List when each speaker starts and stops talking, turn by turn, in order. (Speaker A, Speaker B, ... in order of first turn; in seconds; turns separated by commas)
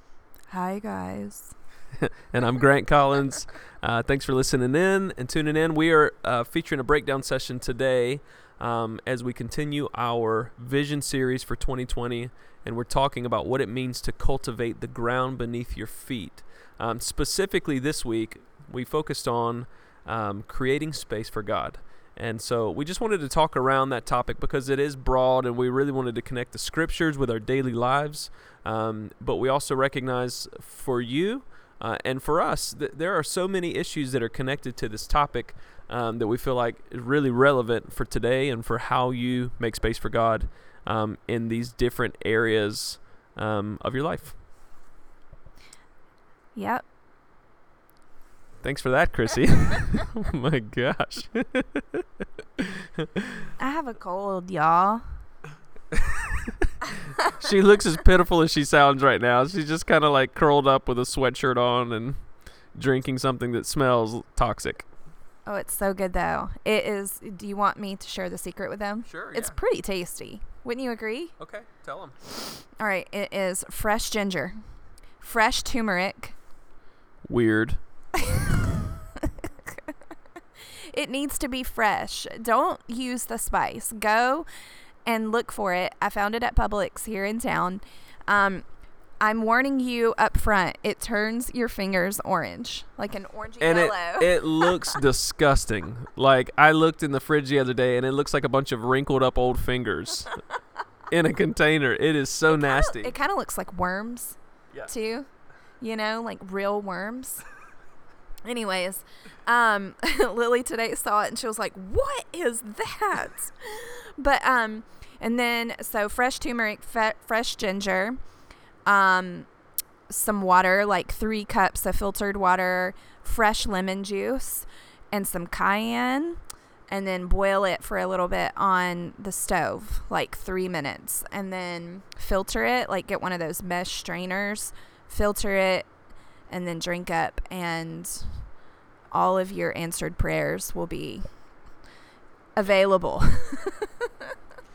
Speaker A: 0.5-1.5, Speaker B: 2.0-44.4, Speaker A: 46.5-46.9, Speaker B: 48.6-52.0, Speaker A: 53.6-55.2, Speaker B: 55.9-56.6, Speaker B: 57.3-64.9, Speaker A: 65.5-71.3, Speaker B: 69.1-69.6, Speaker B: 71.4-72.2, Speaker A: 72.8-74.5, Speaker A: 75.2-76.4, Speaker B: 77.2-77.8, Speaker A: 78.2-80.0, Speaker A: 80.6-84.5, Speaker A: 85.0-88.7, Speaker A: 89.2-95.0, Speaker B: 93.6-100.3, Speaker B: 101.1-103.1, Speaker A: 102.5-105.3, Speaker A: 105.8-107.4, Speaker A: 108.5-118.2, Speaker A: 118.9-119.5, Speaker A: 120.1-135.9, Speaker A: 136.5-138.5, Speaker A: 139.1-141.3, Speaker A: 142.6-144.3